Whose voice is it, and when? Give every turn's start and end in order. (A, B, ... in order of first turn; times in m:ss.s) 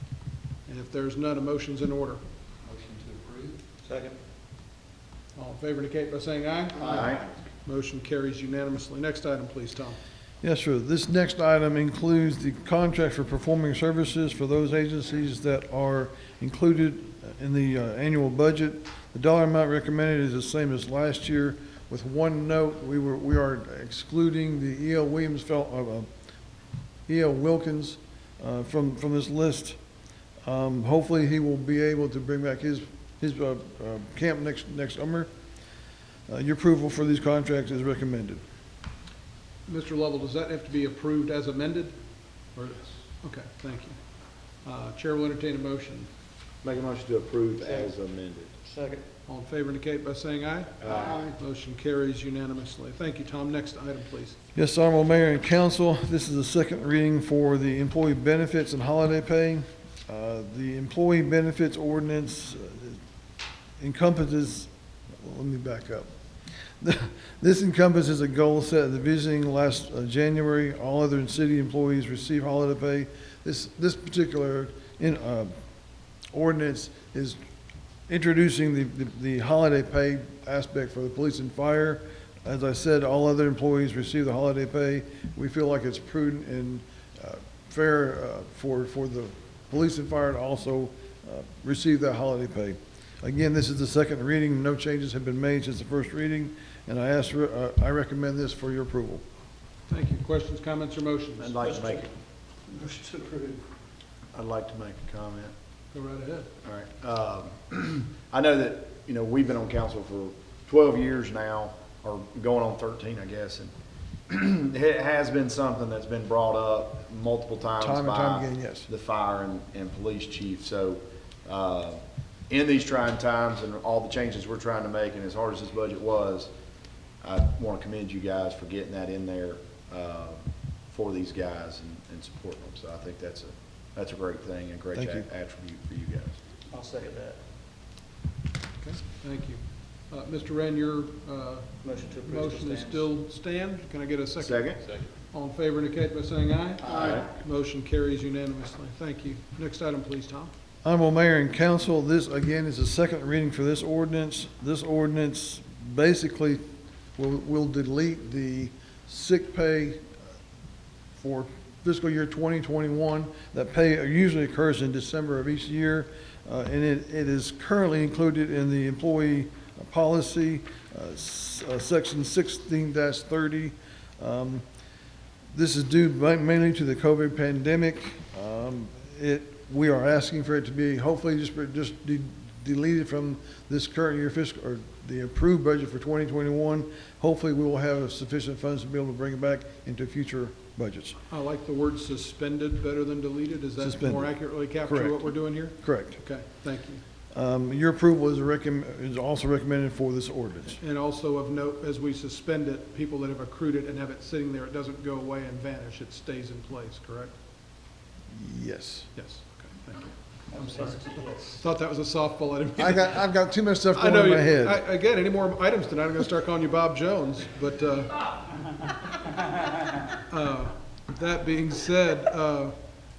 0:00.7-0:02.2 A
0:02.8-0:03.3 B
0:05.4-0:10.0 A
0:06.8-0:07.2 C
0:10.4-0:26.1 D
0:27.1-0:29.8 D
0:30.4-0:35.3 D
0:36.3-0:38.4 D
0:39.7-0:42.0 A
0:42.6-0:44.0 A
0:44.6-0:46.1 A
0:46.6-0:48.6 C
0:48.7-0:49.0 B
0:49.3-0:54.4 A
0:50.8-0:51.3 C
0:54.6-1:03.0 D
1:03.8-1:06.1 D
1:06.8-1:15.5 D
1:16.3-1:17.4 D
1:18.1-1:39.2 D
1:39.9-1:42.0 A
1:41.4-1:42.1 C
1:44.3-1:45.5 C
1:45.9-1:46.5 A
1:46.6-1:53.7 C
1:54.3-2:06.5 C
1:57.8-1:58.9 D
2:07.2-2:16.4 C
2:14.9-2:15.3 D
2:16.7-2:17.4 B
2:18.8-2:30.5 A
2:21.8-2:23.0 B
2:24.4-2:24.8 C
2:26.8-2:27.2 B
2:26.9-2:27.3 C
2:30.8-2:36.6 D
2:37.2-2:40.1 D
2:41.2-2:54.6 D
2:55.5-3:11.2 D
3:11.3-3:17.0 A
3:13.8-3:16.2 D
3:17.3-3:20.8 D
3:20.8-3:27.4 A
3:28.3-3:29.1 D
3:29.2-3:33.3 A
3:30.5-3:31.6 B
3:32.8-3:34.8 D
3:34.0-3:38.4 A
3:40.3-3:42.8 A